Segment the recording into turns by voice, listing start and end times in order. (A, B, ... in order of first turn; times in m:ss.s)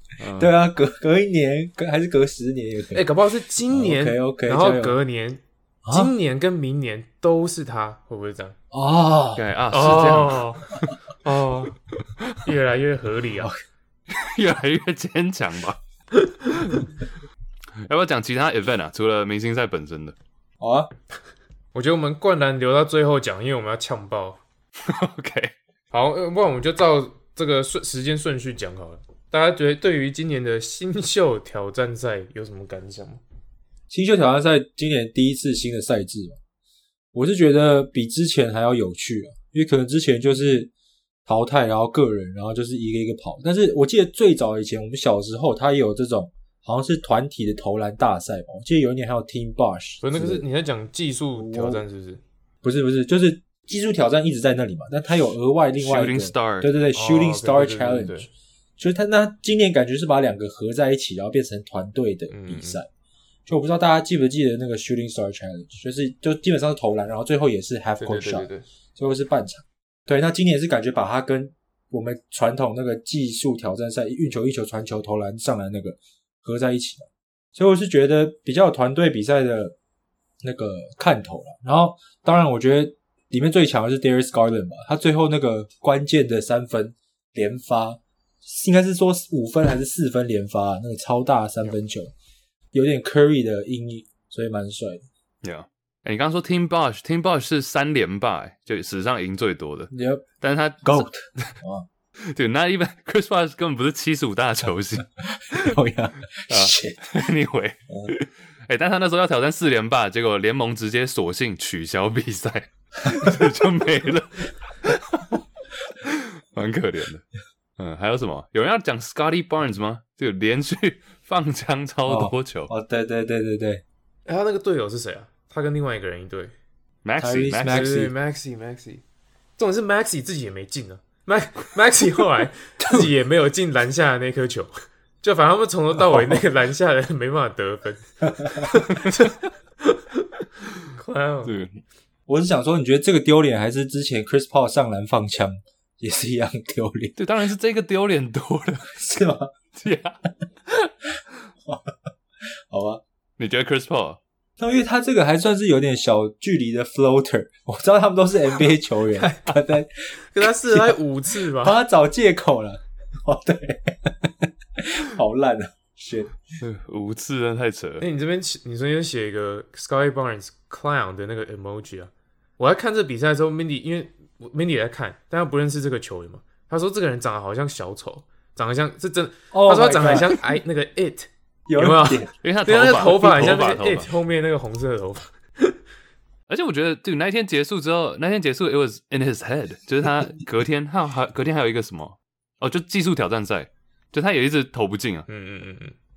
0:00.2-0:00.5 A
0:00.4-0:03.1 B
0:02.9-0:08.6 C
0:03.7-0:05.0 B
0:05.8-0:06.1 B
0:08.7-0:09.4 B
0:09.4-0:12.4 A
0:09.7-0:10.7 C
0:11.3-0:11.7 C
0:12.4-0:13.5 C
0:14.1-0:15.8 A
0:16.2-0:16.8 C
0:17.8-0:20.2 A
0:20.6-0:20.9 B
0:21.7-0:24.4 C
0:24.8-0:25.5 A
0:25.9-0:33.2 C
0:33.9-0:36.4 B
0:37.1-0:40.7 B
0:41.3-0:50.4 B
0:50.0-0:52.2 C
0:51.4-0:51.8 B
0:52.6-1:02.8 B
0:55.8-0:56.7 A
0:56.9-0:58.3 C
1:02.3-1:02.8 C
1:03.5-1:19.8 B
1:08.0-1:08.6 C
1:20.4-1:32.1 B
1:32.7-1:35.0 B
1:35.4-1:41.5 A
1:39.9-1:40.2 B
1:40.8-1:41.8 B
1:42.3-1:45.8 A
1:45.2-1:47.2 B
1:46.5-1:55.4 A
1:55.9-1:57.2 A
1:57.8-2:02.7 A
2:02.0-2:03.8 B
2:04.2-2:06.5 C
2:07.0-2:07.9 A
2:07.2-2:08.1 B
2:07.6-2:09.0 C
2:09.6-2:20.3 C
2:12.8-2:13.1 B
2:16.0-2:16.4 B
2:20.9-2:21.5 C
2:21.4-2:21.8 A
2:22.3-2:27.2 B
2:27.2-2:28.9 A
2:28.9-2:29.5 B
2:29.8-2:30.9 A
2:31.6-2:31.9 B
2:32.7-2:33.0 B
2:33.4-2:34.2 A
2:34.6-2:46.3 B
2:39.1-2:39.6 C
2:40.3-2:41.8 C
2:46.6-2:48.0 A
2:48.0-3:05.8 C
2:59.5-3:00.4 B
3:01.7-3:02.3 B
3:02.4-3:04.1 A
3:06.5-3:15.2 A
3:15.3-3:15.9 C